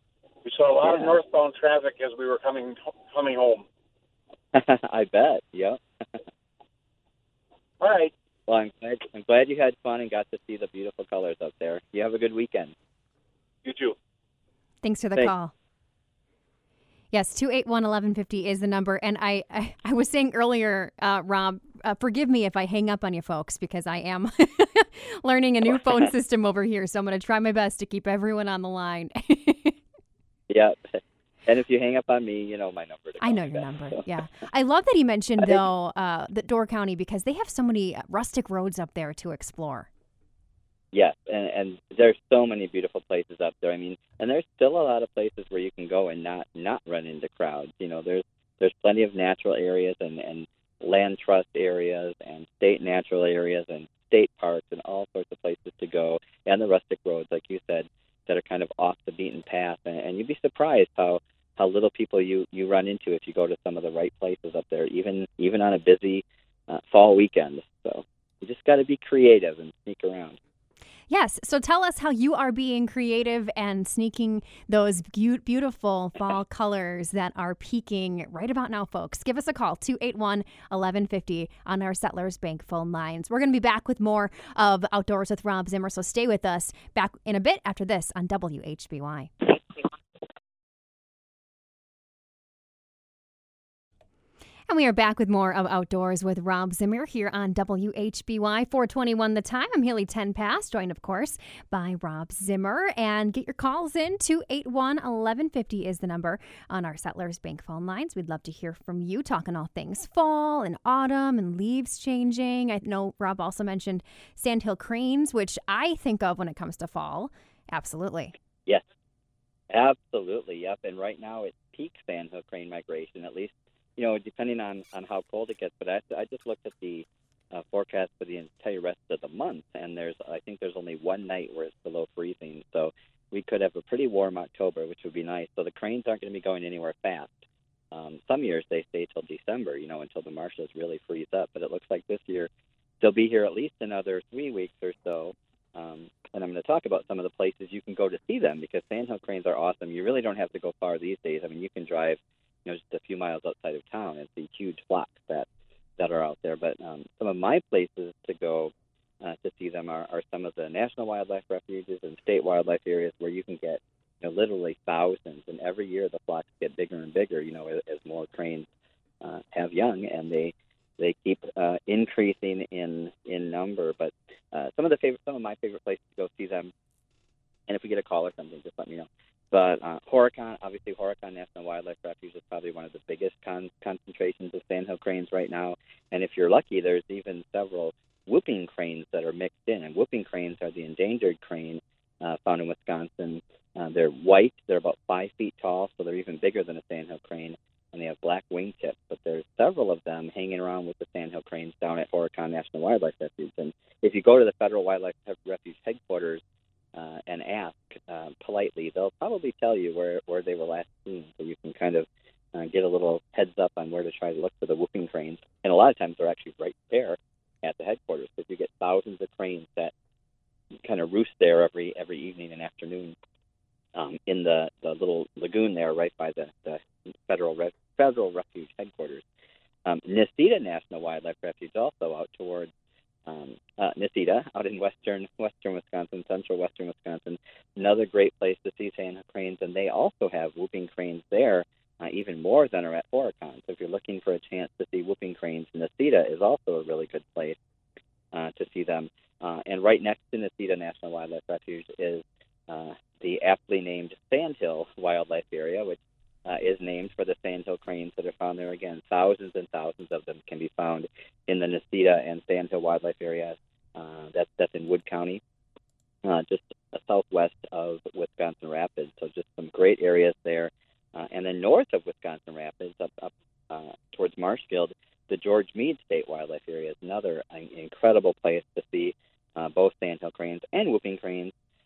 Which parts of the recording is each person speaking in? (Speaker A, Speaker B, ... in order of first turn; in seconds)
Speaker A: 0.4-3.6, 7.8-8.1, 13.6-13.9
Speaker B: 0.8-1.1, 4.5-5.8, 8.5-12.7, 25.7-26.1, 30.5-34.0, 40.9-70.4, 119.7-142.5, 143.0-155.5, 156.0-168.7, 169.2-176.7, 177.7-206.4, 206.9-219.9, 220.8-223.2, 223.9-229.2, 229.8-232.7, 233.2-247.6, 248.3-265.4, 266.2-281.5
Speaker C: 14.8-15.5, 17.1-29.8, 33.2-39.9, 71.1-89.3, 94.7-118.3